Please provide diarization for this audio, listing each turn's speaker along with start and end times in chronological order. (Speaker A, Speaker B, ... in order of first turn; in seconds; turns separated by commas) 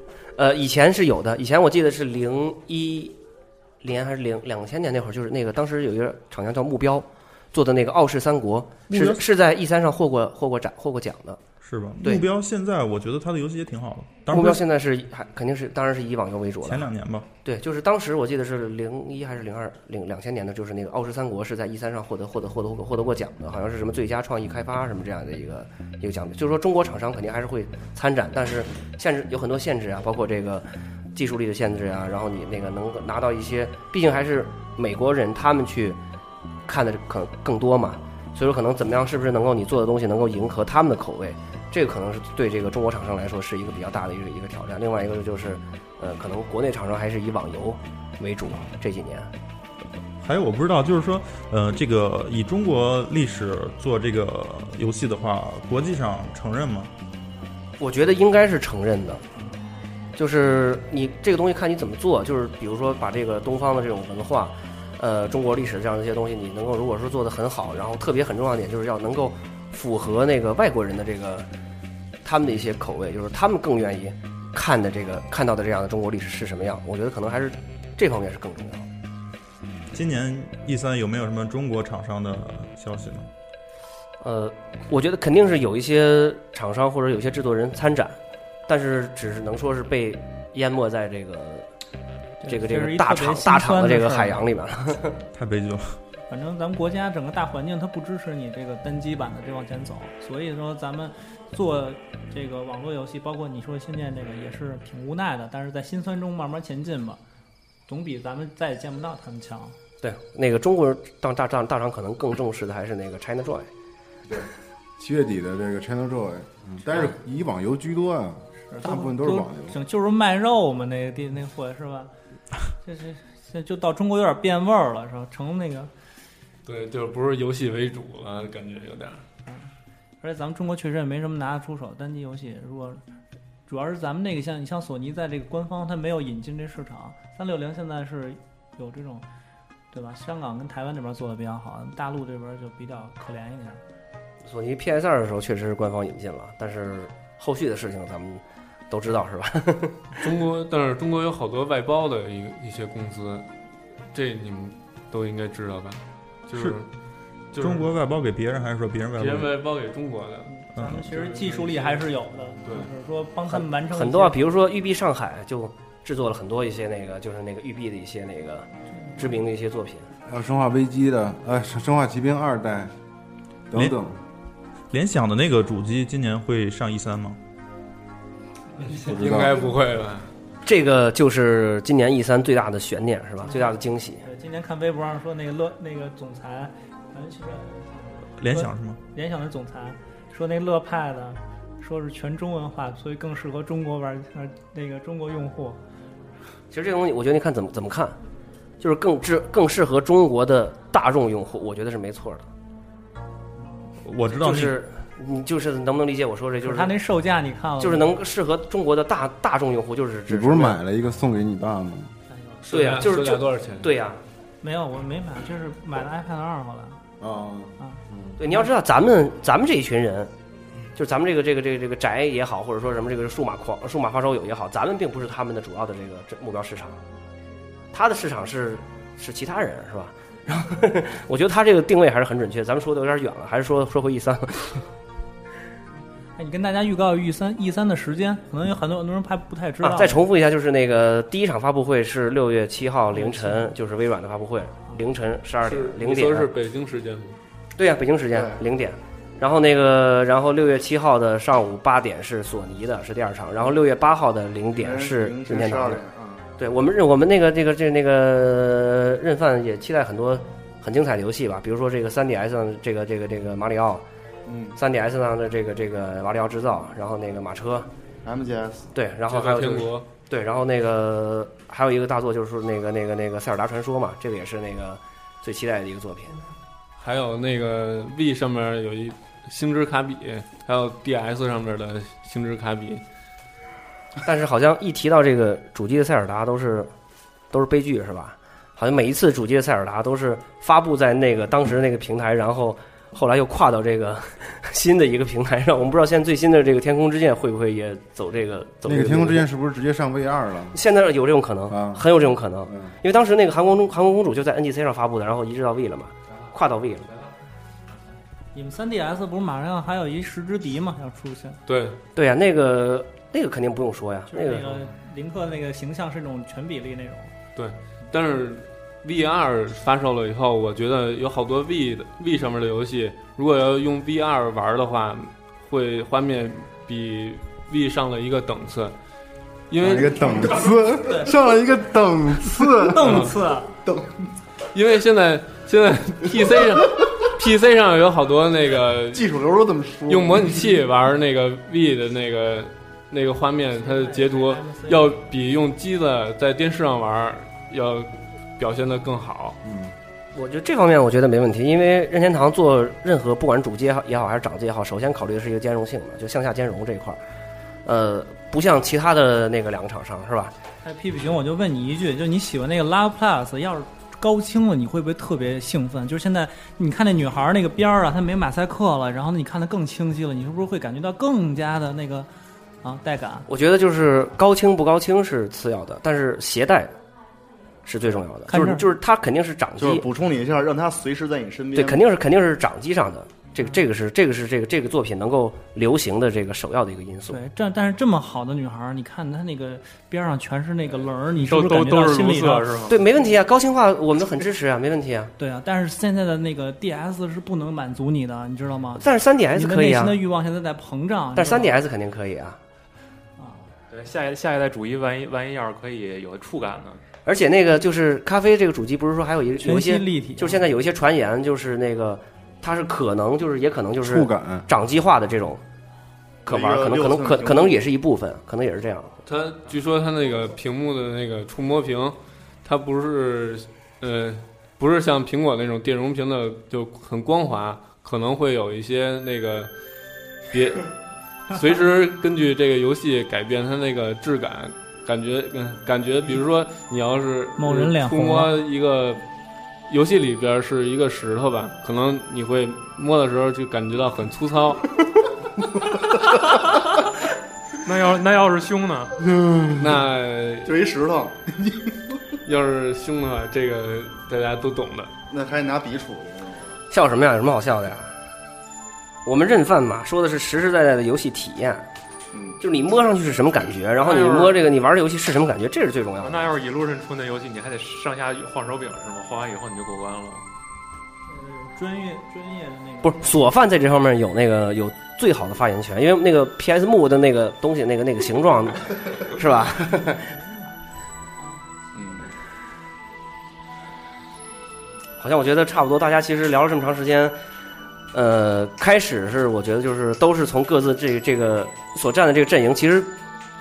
Speaker A: 0.4-3.2, Speaker A: 3.8-11.4, Speaker B: 8.9-9.2, Speaker B: 11.6-14.6, Speaker A: 14.3-16.9, Speaker B: 16.6-17.3, Speaker A: 17.4-36.0, Speaker A: 36.7-49.3, Speaker B: 50.2-56.9, Speaker A: 57.8-59.2, Speaker A: 60.2-71.5, Speaker A: 72.2-78.9, Speaker B: 79.9-83.3, Speaker A: 84.2-91.7, Speaker C: 92.4-94.4, Speaker A: 92.4-95.2, Speaker B: 95.3-96.0, Speaker C: 96.3-107.2, Speaker C: 107.9-109.8, Speaker A: 110.0-113.7, Speaker D: 114.3-119.8, Speaker C: 118.6-122.1, Speaker C: 122.8-125.9, Speaker E: 126.7-129.2, Speaker C: 130.2-133.0, Speaker C: 133.7-139.3, Speaker C: 139.9-143.8, Speaker A: 144.4-150.3, Speaker E: 150.2-153.5, Speaker E: 154.1-156.9, Speaker E: 157.5-157.9, Speaker B: 157.6-159.7, Speaker E: 159.1-160.5, Speaker C: 160.5-164.4, Speaker B: 160.8-161.1, Speaker E: 161.1-162.1, Speaker A: 163.5-170.1, Speaker D: 170.3-172.9, Speaker D: 173.7-174.2, Speaker B: 174.9-177.4, Speaker E: 178.9-180.3, Speaker D: 179.0-179.6, Speaker A: 180.7-184.2, Speaker C: 183.4-195.8, Speaker B: 188.4-189.0, Speaker A: 196.7-198.2, Speaker A: 198.8-202.5, Speaker B: 204.0-204.8, Speaker A: 204.3-206.9, Speaker C: 206.6-208.2, Speaker A: 207.8-210.8, Speaker D: 210.3-212.1, Speaker C: 212.3-212.6, Speaker E: 212.6-213.9, Speaker A: 212.7-214.2, Speaker C: 214.6-217.0, Speaker D: 217.2-218.4, Speaker A: 218.4-220.3, Speaker A: 220.9-227.0, Speaker A: 227.9-234.8, Speaker C: 236.4-240.2, Speaker A: 239.8-246.5, Speaker C: 243.1-243.7, Speaker E: 245.6-247.4, Speaker A: 247.8-256.0, Speaker F: 248.3-248.6, Speaker F: 254.7-256.5, Speaker A: 256.6-264.0, Speaker F: 264.5-264.8, Speaker A: 264.8-267.9, Speaker F: 268.2-268.9, Speaker A: 268.9-276.4, Speaker E: 269.3-270.1, Speaker E: 277.0-283.0, Speaker A: 284.2-286.9, Speaker A: 287.5-299.4, Speaker D: 298.9-300.8, Speaker A: 300.7-307.1, Speaker D: 301.7-302.0, Speaker D: 302.7-303.0, Speaker C: 308.5-311.6, Speaker E: 311.7-312.0, Speaker A: 312.1-314.8, Speaker C: 314.3-317.3, Speaker E: 317.6-329.0, Speaker E: 329.7-330.6, Speaker D: 329.8-333.2, Speaker C: 331.0-331.3, Speaker C: 332.8-333.7, Speaker E: 333.0-333.3, Speaker F: 333.9-334.1, Speaker E: 334.7-339.3, Speaker F: 339.1-340.7, Speaker E: 340.1-349.6, Speaker C: 343.7-345.2, Speaker D: 349.6-349.9, Speaker A: 350.3-357.2, Speaker A: 357.9-360.6, Speaker C: 360.8-372.3, Speaker C: 372.8-373.5, Speaker A: 373.5-376.9, Speaker A: 377.9-380.1, Speaker C: 378.5-378.9, Speaker F: 379.8-382.0, Speaker A: 381.7-387.4, Speaker C: 387.3-392.8, Speaker G: 391.4-393.0, Speaker A: 392.8-395.3, Speaker C: 395.4-401.8, Speaker A: 399.0-400.2, Speaker A: 401.4-402.6, Speaker C: 403.4-403.7, Speaker G: 403.9-407.0, Speaker A: 407.3-415.6, Speaker C: 409.6-410.6, Speaker D: 414.0-414.7, Speaker F: 416.5-417.9, Speaker A: 416.5-419.2, Speaker E: 419.2-429.7, Speaker E: 430.5-430.9, Speaker E: 431.5-439.2, Speaker C: 437.6-438.6, Speaker E: 439.9-444.9, Speaker G: 447.8-449.1, Speaker E: 449.8-450.7, Speaker F: 450.6-452.0, Speaker E: 452.4-455.1, Speaker F: 455.3-456.8, Speaker A: 456.9-458.1, Speaker A: 459.2-461.9, Speaker F: 462.3-462.6, Speaker A: 462.6-466.4, Speaker G: 464.0-464.7, Speaker G: 466.2-470.5, Speaker C: 471.3-473.4, Speaker A: 473.0-480.3, Speaker A: 485.2-487.4, Speaker A: 488.1-493.1